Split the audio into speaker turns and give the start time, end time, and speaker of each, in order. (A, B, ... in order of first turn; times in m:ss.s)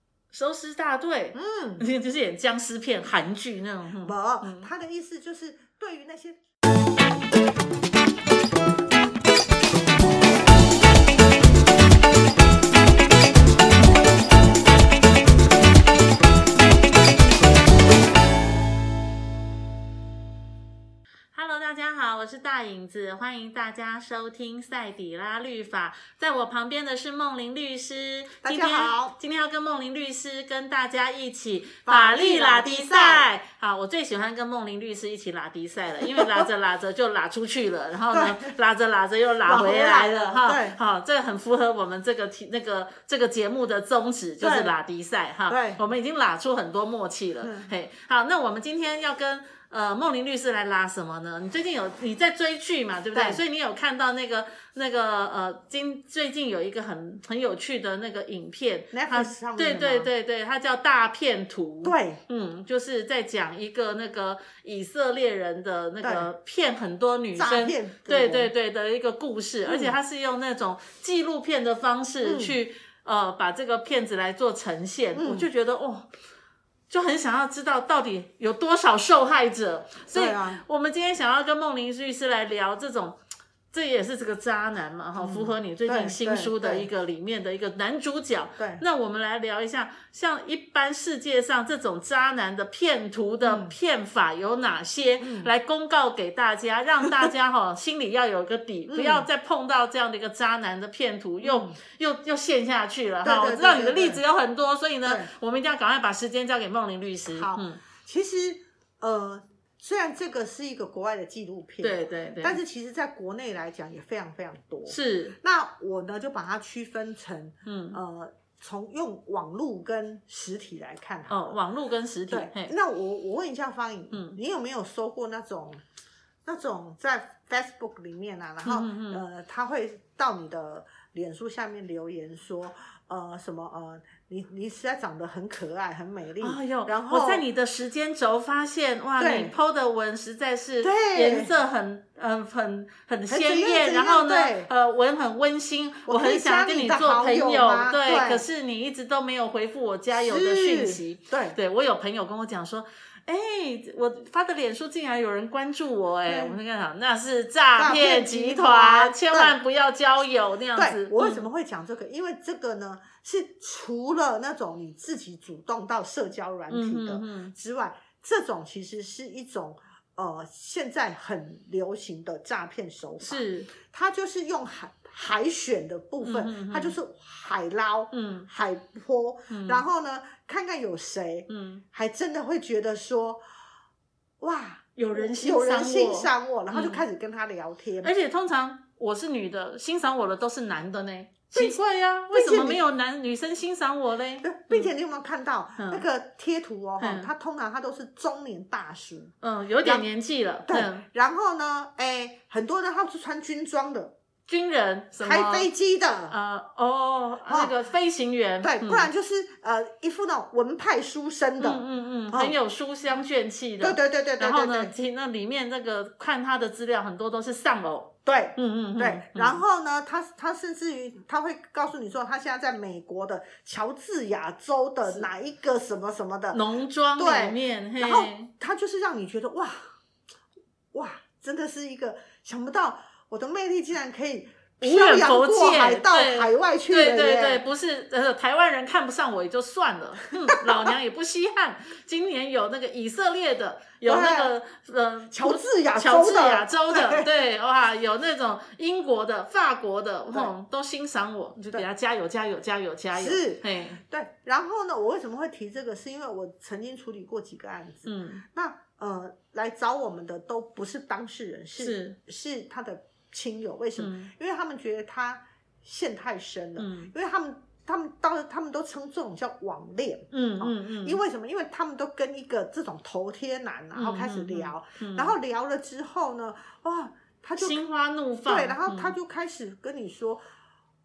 0:00.3-0:04.7 A
0:01.3-0:01.8 B
0:04.0-0:06.4 B
0:21.3-1:16.1 A
0:28.4-0:29.2 B
0:31.8-0:33.3 B
0:36.1-0:36.4 B
0:38.1-0:38.5 B
0:39.4-0:40.8 B
0:44.4-0:44.7 B
0:45.5-0:45.8 B
0:47.4-0:47.7 B
0:53.1-0:53.4 B
0:58.9-1:00.1 B
1:01.8-1:02.2 B
1:06.0-1:06.3 B
1:07.4-1:08.5 B
1:09.6-1:09.9 B
1:12.2-1:12.6 B
1:15.2-1:15.5 B
1:16.9-1:23.2 A
1:20.1-1:20.6 B
1:23.7-1:47.8 A
1:25.2-1:26.9 B
1:28.6-1:28.8 B
1:33.4-1:33.7 B
1:35.2-1:35.5 B
1:37.0-1:37.3 B
1:38.9-1:39.3 B
1:41.4-1:41.8 B
1:43.2-1:44.2 B
1:45.0-1:45.3 B
1:47.3-2:01.6 B
1:51.8-1:52.6 A
1:54.9-1:55.4 A
1:57.6-1:58.0 A
2:01.3-2:02.7 A
2:02.3-2:05.8 B
2:04.1-2:04.4 A
2:06.4-2:17.4 B
2:08.6-2:09.2 A
2:16.4-2:41.4 A
2:19.2-2:19.5 B
2:20.8-2:21.5 B
2:23.3-2:24.7 B
2:26.1-2:28.4 B
2:30.1-2:31.6 B
2:36.3-2:36.6 B
2:37.8-2:39.5 B
2:40.8-3:03.4 B
2:46.7-2:47.5 A
2:53.2-2:53.7 A
2:56.2-2:57.0 A
2:58.1-2:58.5 A
2:59.5-2:59.8 A
3:01.5-3:01.8 A
3:04.4-3:08.1 B
3:05.0-3:07.0 A
3:08.0-3:14.9 A
3:11.5-3:11.8 B
3:12.3-3:12.8 B
3:14.4-3:19.3 B
3:15.8-3:16.0 A
3:17.0-3:17.3 A
3:19.4-3:21.0 A
3:20.7-3:24.1 B
3:24.5-3:25.7 A
3:25.2-3:26.3 B
3:26.3-3:29.1 A
3:27.4-3:27.7 B
3:28.6-3:32.5 B
3:31.6-3:39.6 A
3:33.8-3:34.9 B
3:38.2-3:46.6 B
3:46.5-3:48.5 A
3:47.2-3:49.9 B
3:50.9-3:57.6 B
3:54.8-4:14.0 A
4:04.0-4:04.5 B
4:05.3-4:07.3 B
4:13.1-4:37.8 B
4:18.0-4:18.4 A
4:21.8-4:22.2 A
4:24.0-4:24.3 A
4:26.8-4:27.1 A
4:30.3-4:31.2 A
4:33.9-4:35.3 A
4:37.6-4:39.1 A
4:38.4-4:40.4 B